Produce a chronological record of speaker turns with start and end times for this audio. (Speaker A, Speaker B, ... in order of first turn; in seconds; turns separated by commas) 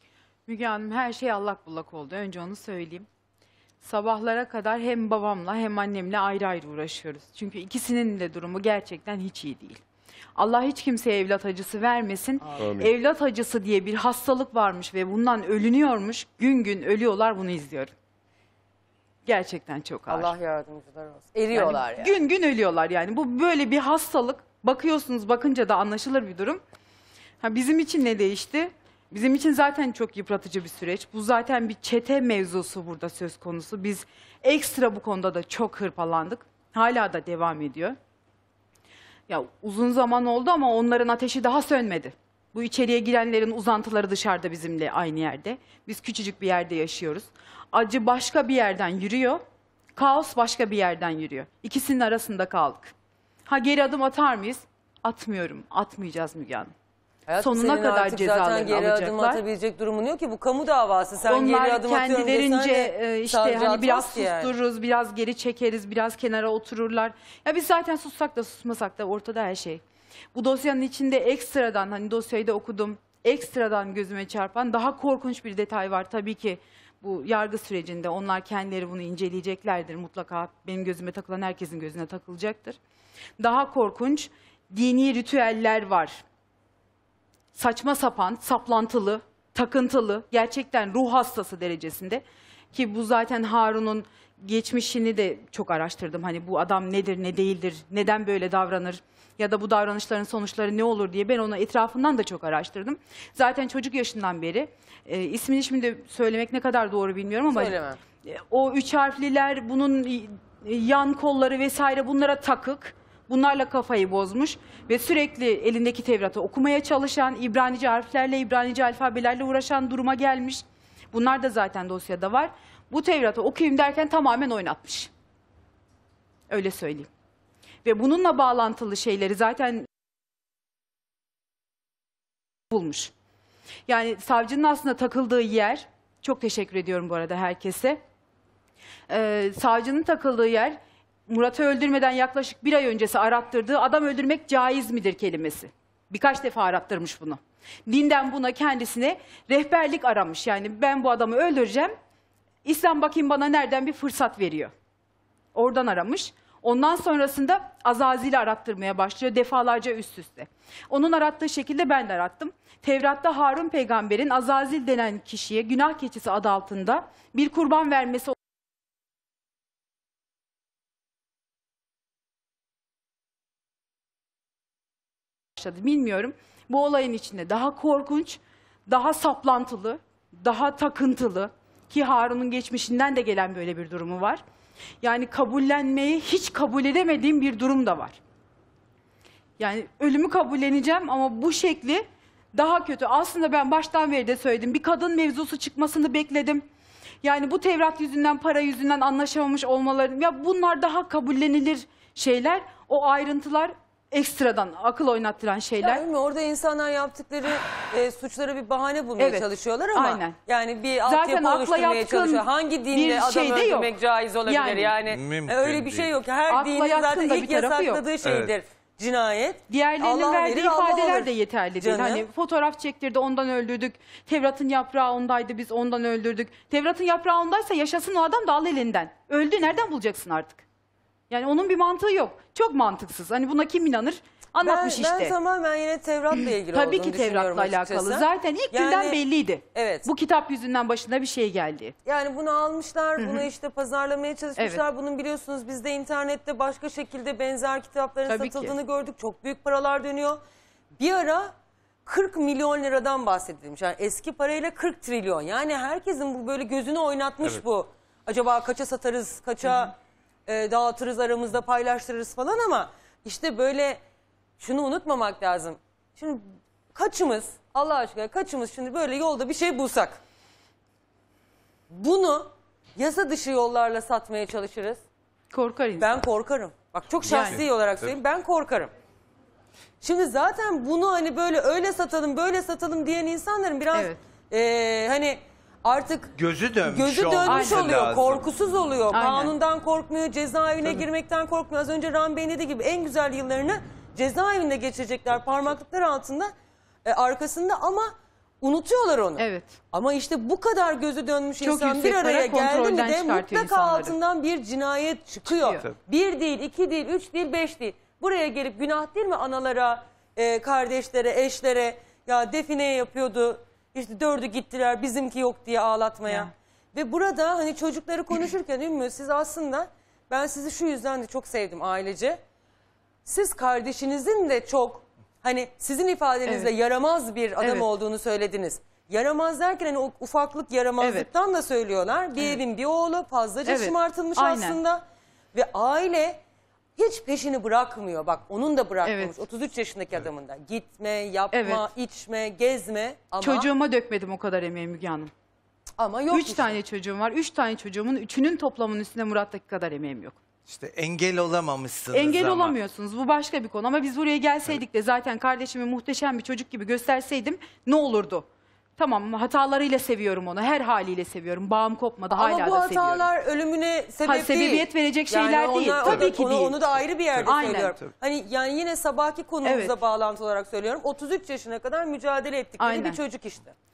Speaker A: 0.5-3.1, Speaker A: 3.8-9.8, Speaker A: 10.4-17.9, Speaker B: 12.4-12.9, Speaker A: 19.3-20.4, Speaker B: 20.1-22.2, Speaker A: 21.5-26.6, Speaker A: 27.4-38.0, Speaker A: 39.3-49.4, Speaker A: 50.0-52.9, Speaker A: 53.5-56.7, Speaker B: 57.3-64.5, Speaker A: 57.4-59.4, Speaker A: 61.3-69.8, Speaker A: 70.3-82.8, Speaker A: 83.4-86.2, Speaker A: 87.5-125.1, Speaker B: 107.5-108.0, Speaker A: 126.5-127.1, Speaker A: 127.8-129.8, Speaker A: 132.7-133.1, Speaker A: 133.9-138.0, Speaker A: 139.1-140.8, Speaker A: 141.3-151.9, Speaker A: 152.6-154.7, Speaker A: 155.5-168.4, Speaker A: 175.6-184.4, Speaker A: 185.0-188.2, Speaker A: 189.6-196.6, Speaker A: 197.2-206.1, Speaker B: 205.8-222.2, Speaker A: 209.2-210.4, Speaker A: 211.0-213.9, Speaker A: 214.5-215.0, Speaker C: 215.1-216.1, Speaker A: 216.5-218.0, Speaker C: 218.2-218.5, Speaker A: 219.7-230.6, Speaker A: 231.3-235.4, Speaker B: 234.6-239.2, Speaker A: 236.4-242.0, Speaker B: 239.7-240.1, Speaker B: 242.1-250.4, Speaker A: 243.2-243.5, Speaker A: 244.6-244.8, Speaker A: 248.3-248.8, Speaker B: 251.0-251.5, Speaker B: 252.1-259.9, Speaker B: 260.5-264.0, Speaker B: 264.6-270.2, Speaker B: 271.9-275.0, Speaker A: 275.5-276.1, Speaker B: 276.0-278.9, Speaker A: 277.2-277.6, Speaker B: 280.0-296.5, Speaker A: 283.9-284.2, Speaker C: 286.4-288.5, Speaker A: 287.5-288.0, Speaker A: 289.1-289.6, Speaker B: 297.1-322.4, Speaker A: 299.4-299.8, Speaker A: 301.6-304.2, Speaker A: 305.5-305.9, Speaker B: 323.2-336.4, Speaker A: 326.5-326.7, Speaker A: 331.0-331.3, Speaker A: 333.7-334.8, Speaker B: 337.0-343.7, Speaker A: 339.0-339.4, Speaker A: 341.5-341.9, Speaker A: 343.4-345.3, Speaker B: 346.0-346.8, Speaker A: 346.3-350.4, Speaker C: 350.7-352.8, Speaker A: 352.1-358.4, Speaker A: 359.0-363.3, Speaker B: 362.3-373.7, Speaker A: 364.2-366.8, Speaker A: 367.4-368.0, Speaker A: 369.6-370.0, Speaker A: 372.8-373.2